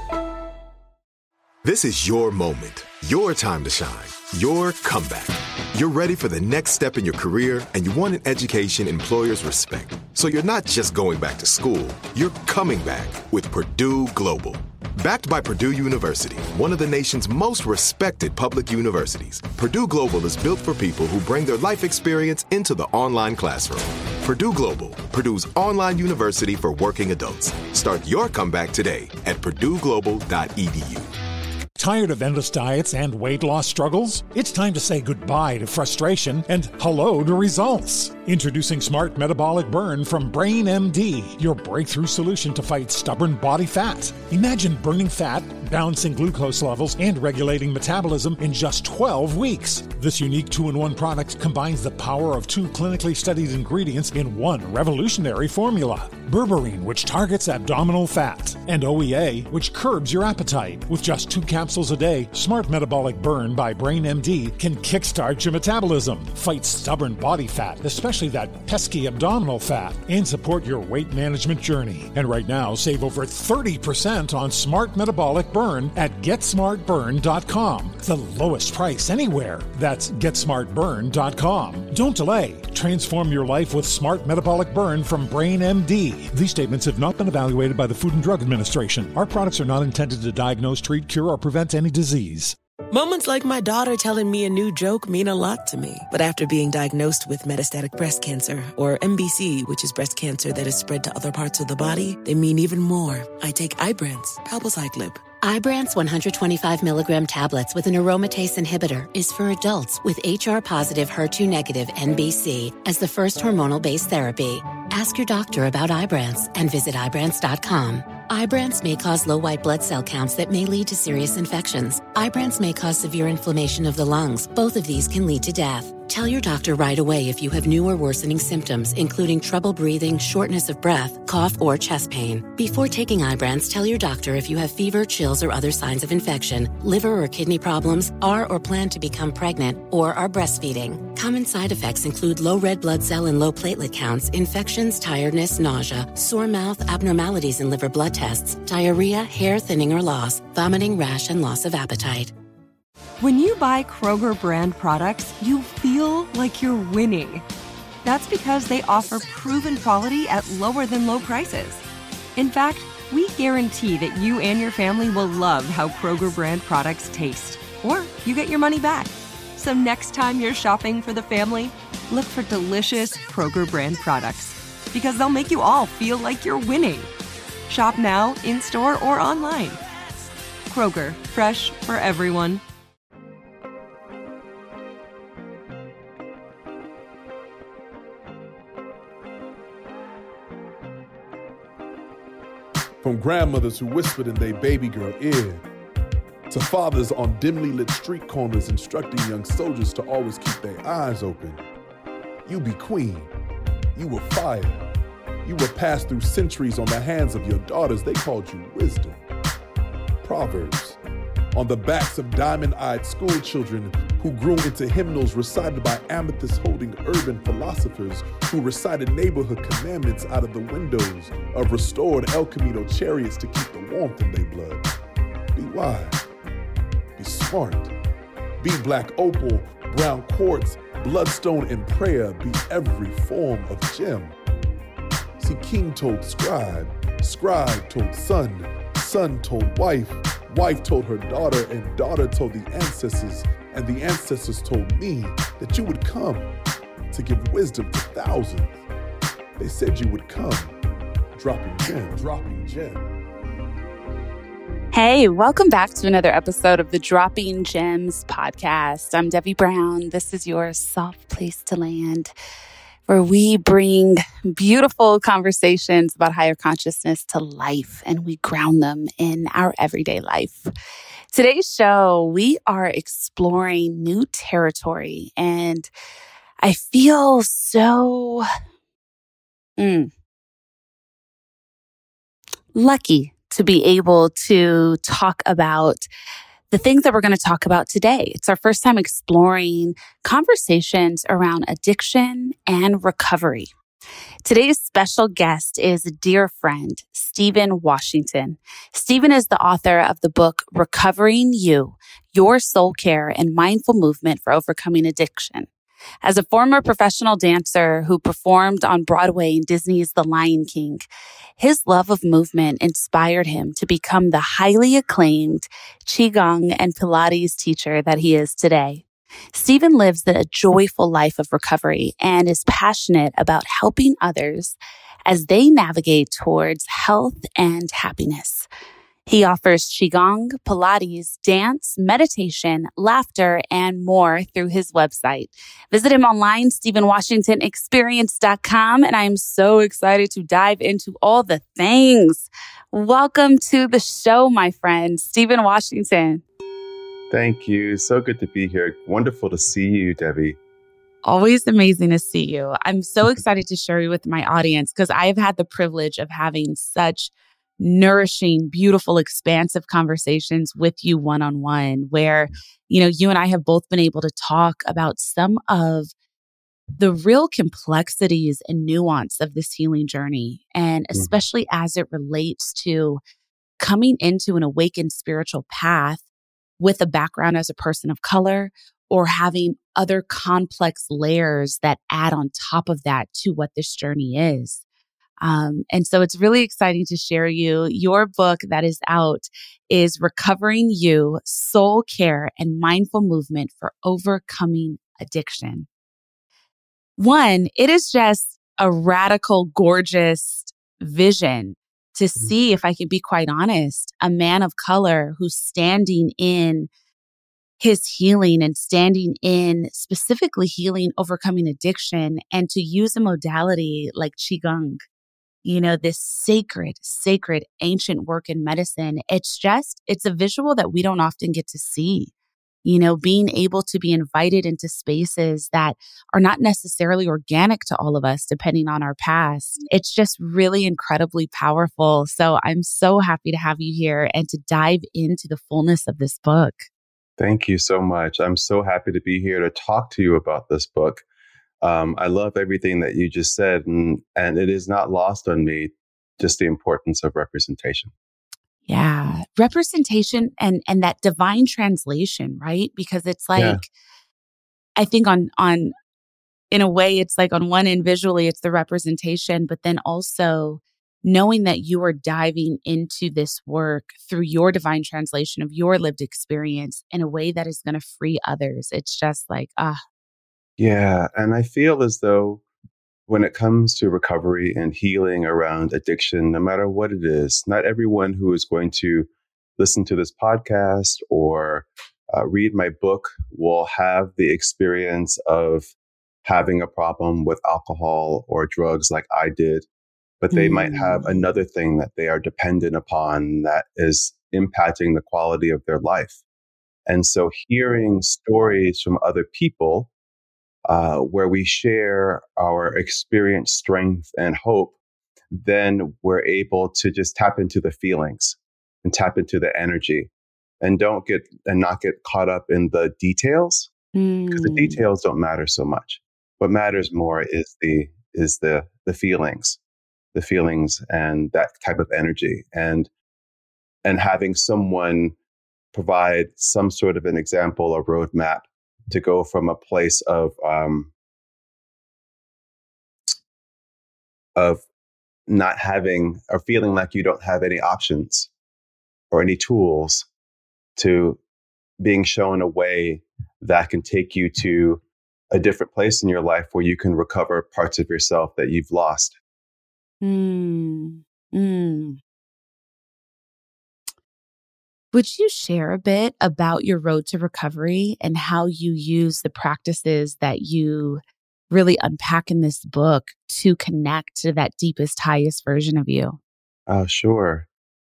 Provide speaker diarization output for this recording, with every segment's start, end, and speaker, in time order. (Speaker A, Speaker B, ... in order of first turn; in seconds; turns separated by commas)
Speaker A: 1.6-31.1, Speaker B: 31.8-92.5, Speaker C: 92.9-105.2, Speaker D: 105.4-152.3, Speaker E: 153.2-157.4, Speaker E: 158.0-161.8, Speaker E: 162.3-177.1, Speaker E: 177.7-179.8, Speaker E: 180.7-182.6, Speaker F: 193.0-195.6, Speaker F: 196.5-201.6, Speaker F: 202.5-203.3, Speaker F: 203.9-204.8, Speaker F: 205.4-209.2, Speaker F: 210.2-211.0, Speaker F: 211.5-224.8, Speaker F: 225.5-226.2, Speaker F: 227.2-227.9, Speaker F: 228.6-234.3, Speaker F: 235.4-246.5, Speaker F: 247.1-248.8, Speaker F: 249.6-250.7, Speaker F: 251.3-253.0, Speaker G: 254.9-262.3, Speaker G: 263.1-270.7, Speaker G: 271.3-275.9, Speaker G: 276.6-278.4, Speaker G: 279.8-280.1, Speaker G: 282.7-286.1, Speaker G: 286.7-293.7, Speaker G: 294.4-305.7, Speaker G: 306.2-311.1, Speaker G: 311.6-328.7, Speaker G: 329.2-346.4, Speaker H: 347.3-350.6, Speaker G: 351.2-366.1, Speaker G: 367.0-373.2, Speaker G: 373.8-376.2, Speaker G: 376.8-384.8, Speaker G: 385.4-395.9, Speaker G: 397.2-406.9, Speaker G: 407.8-415.0, Speaker G: 415.6-422.3, Speaker G: 422.8-436.8, Speaker H: 437.4-441.2, Speaker H: 441.8-448.1, Speaker G: 448.9-453.9, Speaker H: 453.5-453.8, Speaker G: 455.0-455.9, Speaker G: 456.7-470.0, Speaker H: 470.8-472.6, Speaker H: 473.3-485.9, Speaker H: 486.4-489.9, Speaker H: 490.4-496.4, Speaker G: 490.5-491.4, Speaker H: 497.1-500.1, Speaker H: 500.9-504.9, Speaker H: 505.5-510.3, Speaker H: 510.8-513.9, Speaker G: 514.1-515.0, Speaker H: 514.5-519.8, Speaker H: 520.3-523.1, Speaker H: 524.0-525.4, Speaker H: 525.9-531.1, Speaker H: 534.6-534.8, Speaker H: 535.5-538.5, Speaker H: 539.3-540.3, Speaker H: 541.0-541.4, Speaker H: 542.0-549.4, Speaker G: 550.2-552.2, Speaker G: 555.1-566.4, Speaker H: 566.9-567.7